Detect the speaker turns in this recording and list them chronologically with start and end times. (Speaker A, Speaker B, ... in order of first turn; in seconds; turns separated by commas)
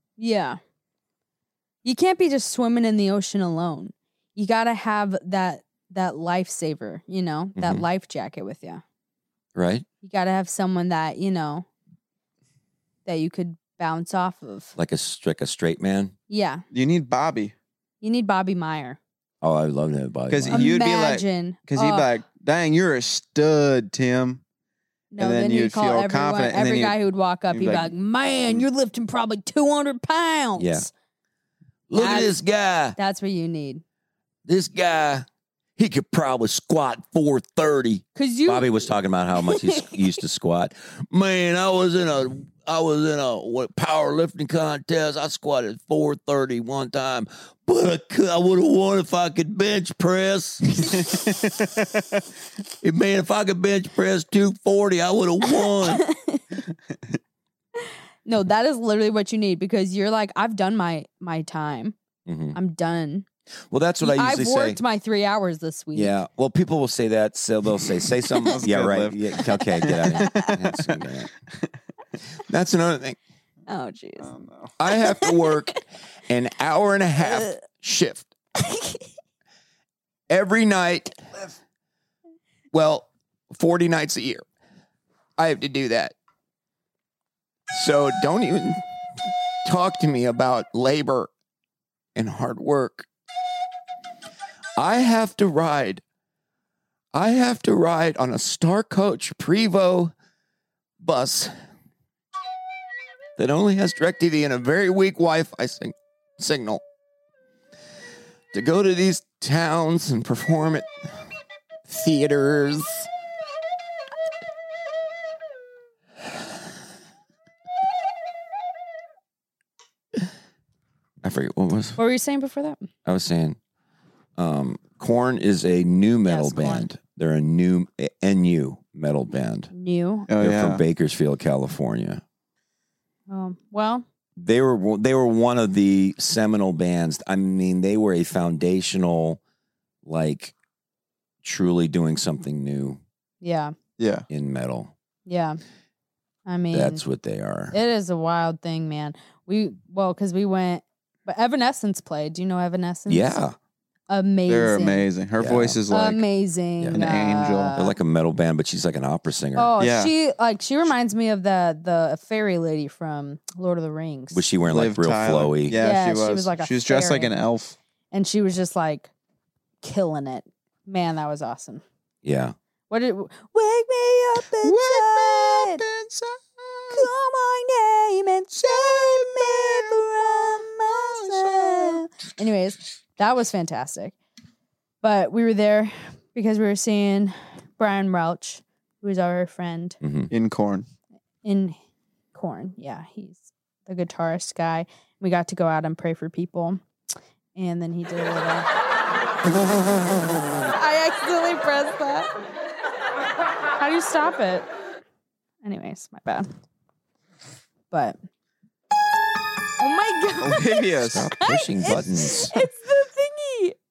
Speaker A: 0.2-0.6, Speaker A: 1.8-8.8, Speaker B: 7.6-7.8, Speaker B: 9.6-9.8, Speaker A: 10.0-11.7, Speaker A: 13.1-14.7, Speaker B: 14.8-16.1, Speaker A: 16.3-16.6, Speaker C: 16.7-17.5, Speaker A: 18.0-19.0, Speaker B: 19.4-20.7, Speaker C: 20.3-24.4, Speaker A: 20.5-22.1, Speaker A: 25.1-30.9, Speaker C: 25.2-27.0, Speaker C: 27.5-27.9, Speaker B: 30.6-30.9, Speaker B: 31.9-33.0, Speaker A: 32.0-32.4, Speaker A: 33.0-33.8, Speaker B: 34.5-35.3, Speaker B: 35.8-50.8, Speaker A: 38.1-40.0, Speaker C: 51.1-51.6, Speaker B: 52.8-56.0, Speaker A: 55.5-56.5, Speaker A: 57.8-62.0, Speaker B: 62.3-62.6, Speaker A: 62.5-63.3, Speaker B: 63.7-64.8, Speaker A: 64.0-66.2, Speaker B: 65.9-71.3, Speaker C: 68.5-69.2, Speaker A: 69.8-70.5, Speaker C: 69.8-71.0, Speaker B: 72.5-73.2, Speaker A: 73.7-74.3, Speaker C: 74.2-74.7, Speaker B: 74.8-78.3, Speaker A: 74.9-75.6, Speaker A: 77.3-77.6, Speaker A: 78.6-79.0, Speaker B: 80.3-81.2, Speaker B: 82.7-84.5, Speaker B: 85.4-86.2, Speaker B: 87.7-88.8, Speaker B: 89.7-91.3, Speaker B: 92.2-93.1, Speaker B: 94.8-96.0, Speaker B: 97.1-100.1, Speaker B: 101.0-101.5, Speaker B: 103.4-106.8, Speaker B: 108.5-110.9, Speaker B: 111.9-113.1, Speaker B: 121.2-122.0, Speaker A: 122.0-122.9, Speaker B: 123.1-123.6, Speaker B: 124.4-129.7, Speaker A: 126.2-126.9, Speaker A: 129.7-130.3, Speaker C: 130.3-130.8, Speaker B: 130.4-132.2, Speaker A: 133.3-134.1, Speaker B: 134.4-139.4, Speaker B: 140.1-140.5, Speaker B: 141.4-143.0, Speaker A: 143.4-143.7, Speaker C: 144.0-144.3, Speaker B: 144.3-144.9, Speaker A: 145.3-145.6, Speaker A: 146.5-147.0, Speaker B: 146.7-147.8, Speaker A: 147.7-153.4, Speaker B: 153.1-153.6, Speaker A: 154.1-155.1, Speaker C: 154.5-156.3, Speaker B: 155.4-155.8, Speaker A: 155.9-158.0, Speaker C: 156.9-157.8, Speaker B: 157.8-159.7, Speaker A: 159.6-164.4, Speaker C: 159.8-160.1, Speaker B: 164.3-165.8, Speaker C: 164.6-167.8, Speaker A: 165.8-167.3, Speaker A: 168.1-169.1, Speaker A: 169.8-171.8, Speaker B: 172.2-172.6, Speaker A: 172.9-175.8, Speaker C: 174.6-177.1, Speaker A: 176.9-184.2, Speaker C: 178.5-182.0, Speaker A: 185.0-190.0, Speaker B: 190.0-190.3, Speaker C: 190.3-190.9, Speaker A: 191.4-191.8, Speaker A: 192.3-196.8, Speaker A: 197.6-198.7, Speaker A: 200.6-202.3, Speaker A: 203.8-204.7, Speaker A: 205.6-206.5, Speaker A: 207.9-208.2, Speaker A: 209.8-213.8, Speaker C: 210.4-211.3, Speaker B: 211.0-212.6